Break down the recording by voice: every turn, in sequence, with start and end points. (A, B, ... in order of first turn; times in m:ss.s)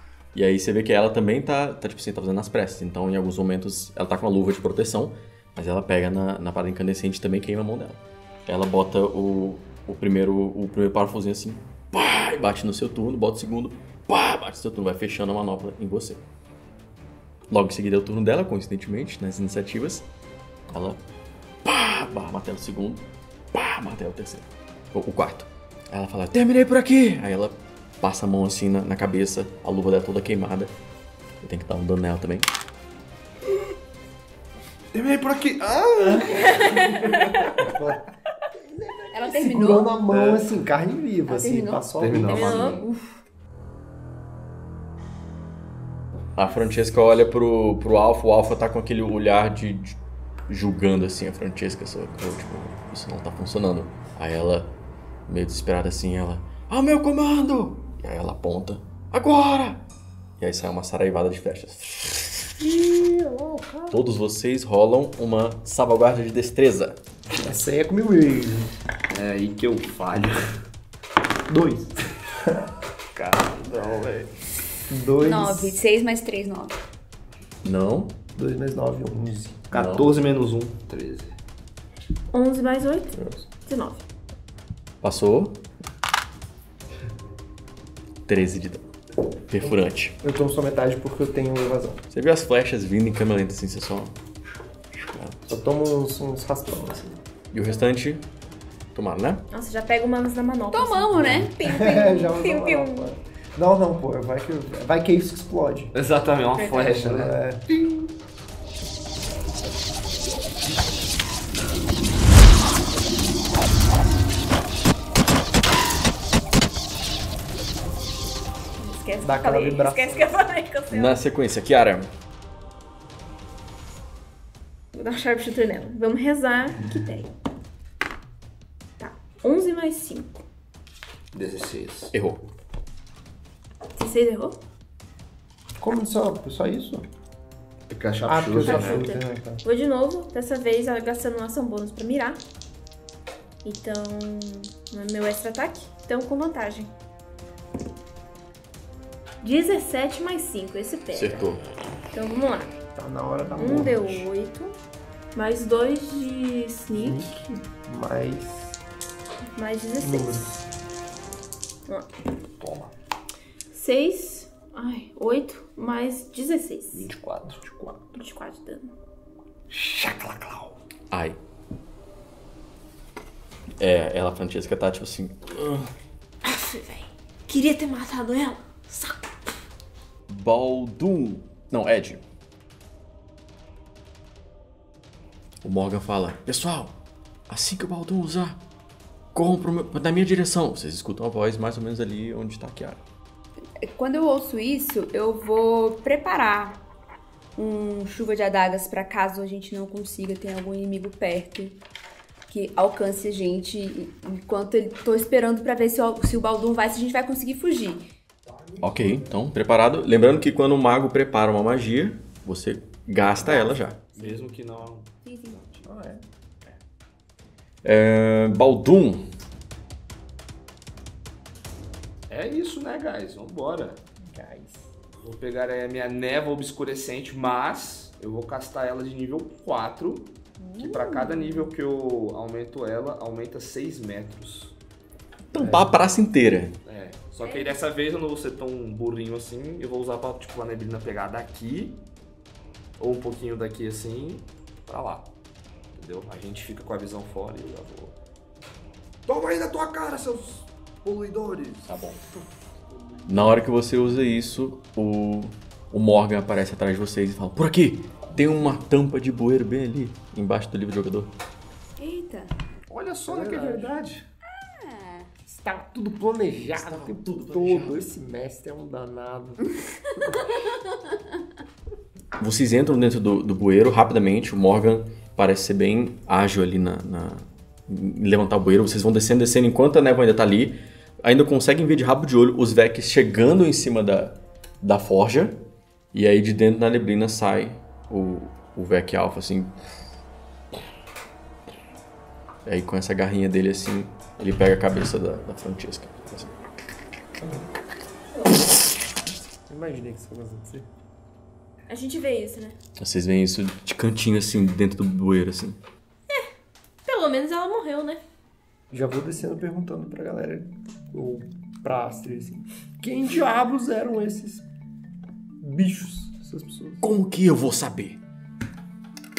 0:00.3-0:16.2 A
0:17.5-0:20.0 A
0:20.7-0:21.0 A
0:21.6-0:30.7 A
0:31.4-0:32.5 A
0:34.9-0:37.5 B
0:36.6-0:37.3 C
0:37.6-0:42.5 D
0:39.1-0:40.0 E
0:40.1-0:40.5 B
0:41.2-0:43.2 E
0:42.0-0:42.8 B
0:42.2-0:42.8 C
0:46.4-0:54.7 A
0:55.3-0:59.8 A
1:00.4-1:02.5 A
1:02.6-1:04.0 D
1:03.9-1:07.0 A
1:07.4-1:08.7 D
1:09.1-1:10.4 B
1:11.5-1:12.7 D
1:13.1-1:14.3 B
1:14.9-1:15.8 D
1:15.2-1:16.8 E
1:17.6-1:18.2 A
1:18.3-1:19.7 D
1:19.7-1:21.3 B
1:19.7-1:20.1 A
1:22.3-1:24.0 C
1:23.1-1:23.4 D
1:25.0-1:25.6 A
1:28.3-1:28.8 A
1:29.5-1:30.2 A
1:29.6-1:32.0 D
1:32.1-1:34.2 A
1:34.9-1:35.6 A
1:35.5-1:37.2 D
1:37.5-1:38.2 A
1:38.9-1:39.4 A
1:39.5-1:43.1 C
1:40.7-1:42.3 E
1:41.6-1:45.9 D
1:45.9-1:47.4 B
1:46.6-1:47.6 D
1:58.8-2:01.2 C
1:59.2-2:00.4 D
2:00.9-2:02.1 A
2:04.9-2:07.3 C
2:09.0-2:10.4 C
2:11.3-2:12.1 B
2:12.1-2:12.4 A
2:13.9-2:14.6 C
2:15.8-2:17.0 D
2:17.9-2:19.1 B
2:18.2-2:19.6 D
2:18.6-2:22.4 C
2:23.6-2:26.9 C
2:29.4-2:31.4 C
2:31.1-2:31.6 A
2:32.1-2:32.7 C
2:33.0-2:34.3 D
2:33.6-2:34.4 C
2:33.8-2:34.7 E
2:35.3-2:37.3 C
2:36.9-2:38.8 D
2:39.5-2:40.5 C
2:40.0-2:40.6 D
2:42.6-2:42.9 B
2:43.7-2:47.1 C
2:46.9-2:48.0 B
2:48.1-2:48.9 C
2:49.7-2:50.8 B
2:51.1-2:51.4 A
2:53.8-2:55.9 A
2:56.4-2:59.3 C
3:00.3-3:02.2 A
3:05.6-3:06.9 A
3:07.5-3:08.6 A
3:09.3-3:13.0 A
3:13.8-3:16.8 E
3:17.6-3:21.8 E
3:22.5-3:28.0 E
3:28.6-3:29.2 D
3:28.8-3:34.0 A
3:33.4-3:34.4 E
3:34.1-3:35.9 B
3:35.2-3:35.6 E
3:35.8-3:36.2 D
3:37.8-3:39.3 A
3:42.3-3:44.0 B
3:44.2-3:44.9 D
3:45.2-3:54.8 B
3:50.6-3:51.6 E
3:55.5-3:56.8 A
3:55.6-3:55.9 D
3:56.8-4:02.0 B
3:57.4-3:57.8 E
4:03.0-4:05.3 B
4:05.9-4:08.2 B
4:09.3-4:12.0 B
4:11.8-4:12.2 A
4:13.3-4:21.3 A
4:22.0-4:22.5 E
4:22.9-4:24.2 B
4:23.3-4:24.0 D
4:24.5-4:25.3 E
4:25.4-4:29.7 D
4:26.6-4:28.1 A
4:32.4-4:49.7 A
4:52.6-4:56.5 A
4:57.4-4:57.7 D
4:59.7-5:00.8 D
5:01.9-5:02.8 C
5:03.0-5:05.8 A
5:07.0-5:08.2 C
5:08.9-5:14.6 D
5:15.6-5:17.0 D
5:17.0-5:18.2 A